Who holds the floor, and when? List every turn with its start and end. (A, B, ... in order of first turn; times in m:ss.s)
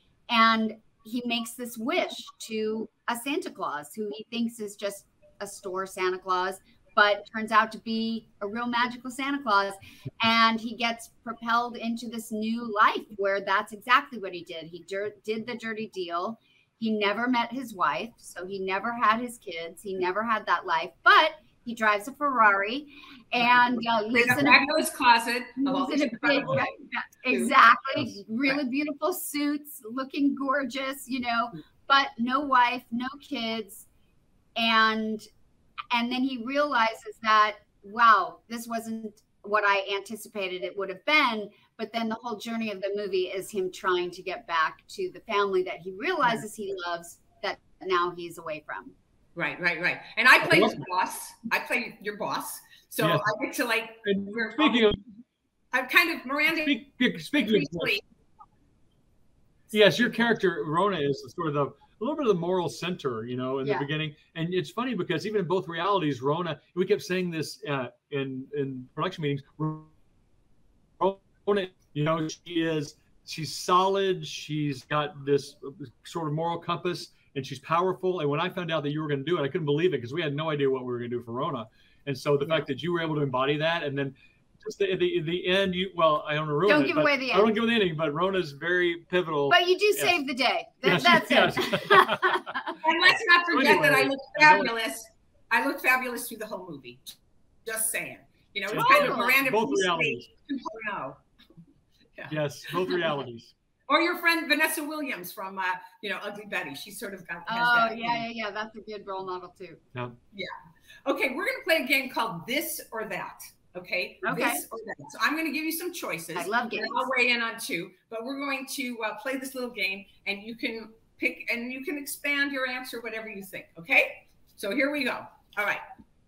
0:00.3-0:24.6 A
0:24.2-0:27.5 B
0:25.6-0:33.8 A
0:34.6-0:35.2 A
0:35.9-0:48.9 A
0:49.3-0:54.9 B
0:50.4-0:50.8 C
0:53.0-0:53.3 C
0:54.0-0:55.0 C
0:55.7-0:56.8 B
0:56.6-0:58.0 C
0:57.4-0:58.0 B
0:59.7-1:00.1 B
0:59.7-1:09.9 C
1:03.6-1:03.9 A
1:11.0-1:30.2 C
1:26.6-1:27.5 A
1:29.5-1:32.6 A
1:30.8-1:32.5 C
1:32.8-1:41.2 B
1:33.5-1:34.7 C
1:38.7-1:40.3 C
1:38.7-1:39.4 A
1:42.1-1:43.0 B
1:42.3-1:43.5 C
1:43.9-1:48.2 B
1:47.5-1:49.8 A
1:51.0-2:05.8 B
1:54.2-1:54.6 A
1:56.3-1:57.1 A